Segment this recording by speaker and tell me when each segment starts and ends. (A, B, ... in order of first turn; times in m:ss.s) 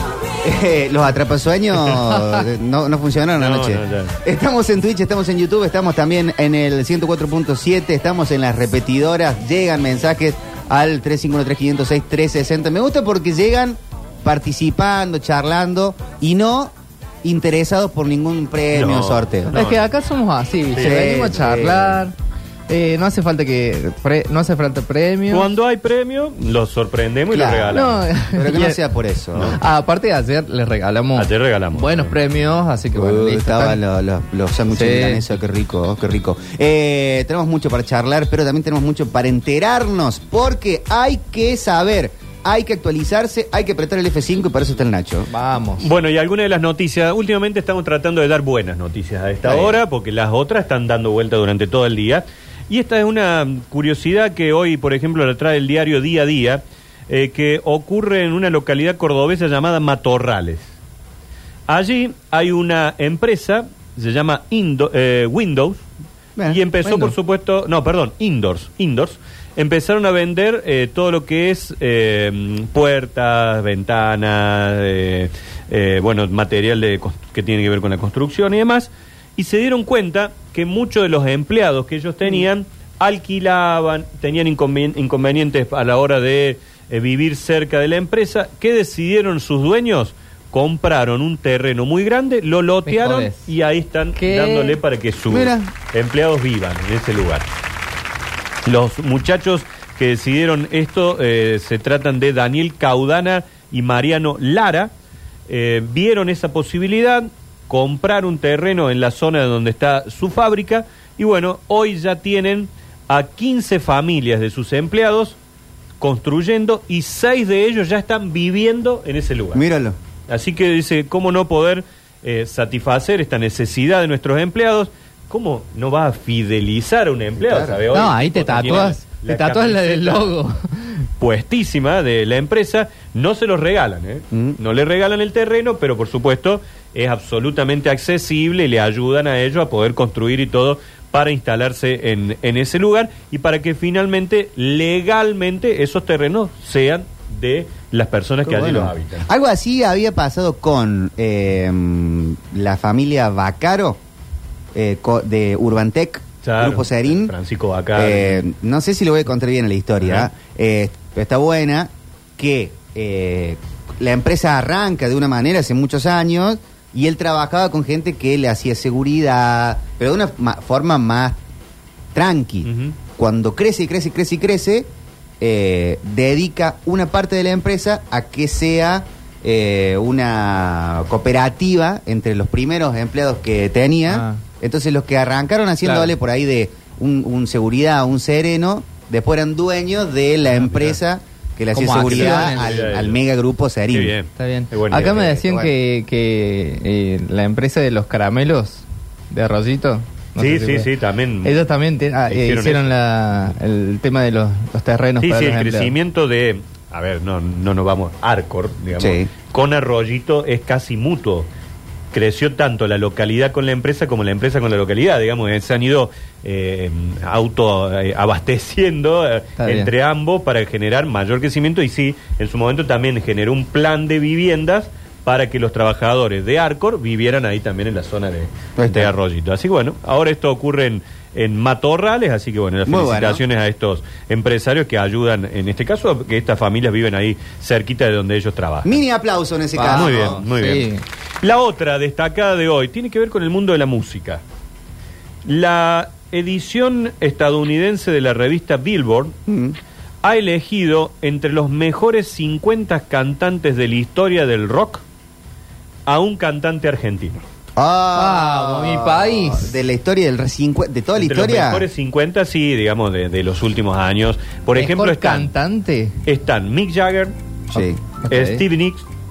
0:00.4-0:19.6 A
0:03.4-0:04.1 B
0:18.7-0:19.8 B
0:19.5-0:22.1 C
0:20.8-0:22.0 A
0:22.7-0:25.5 C
0:25.3-0:28.0 B
0:27.3-0:29.6 A
0:27.7-0:28.8 C
0:29.5-0:33.8 C
0:31.2-0:32.1 B
0:32.9-0:45.3 A
0:34.7-0:35.2 C
0:45.3-0:45.9 C
0:45.8-1:00.7 B
0:49.4-0:49.7 A
1:01.7-1:05.8 B
1:06.4-1:07.1 A
1:06.5-1:37.4 B
1:32.8-1:33.4 C
1:34.2-1:34.8 C
1:35.3-1:35.7 A
1:38.6-1:44.9 B
1:45.5-1:55.4 B
1:56.0-1:59.6 B
1:59.5-2:00.0 A
2:00.3-2:10.3 B
2:07.4-2:07.8 A
2:07.9-2:10.9 C
2:11.2-2:29.2 B
2:14.3-2:14.6 A
2:28.4-2:34.0 A
2:34.7-2:37.3 A
2:36.4-2:38.4 B
2:38.0-2:51.4 A
2:52.1-2:54.9 A
2:52.6-2:52.9 B
2:55.4-3:14.1 A
3:04.1-3:04.4 C
3:05.8-3:06.1 C
3:10.5-3:11.0 B
3:11.7-3:12.7 C
3:11.9-3:13.2 B
3:13.9-3:15.3 B
3:14.4-3:20.9 C
3:15.0-3:15.7 A
3:20.4-3:21.6 B
3:21.4-3:25.9 C
3:22.3-3:23.0 B
3:25.2-3:31.5 B
3:29.0-3:29.3 A
3:32.1-3:59.0 B
3:39.6-3:39.9 C
3:48.8-3:49.1 A
3:52.8-3:53.4 A
3:58.8-4:00.4 A
3:59.7-4:01.0 C
3:59.9-4:04.4 B
4:05.4-4:09.4 B
4:09.5-4:09.8 A
4:10.2-4:15.0 B
4:16.0-4:17.4 B
4:17.8-4:21.9 A
4:18.1-4:19.7 C
4:21.2-4:25.5 B
4:24.7-4:26.2 C
4:26.2-4:27.3 B
4:27.7-4:28.0 A
4:28.2-4:28.6 C
4:28.3-4:29.0 B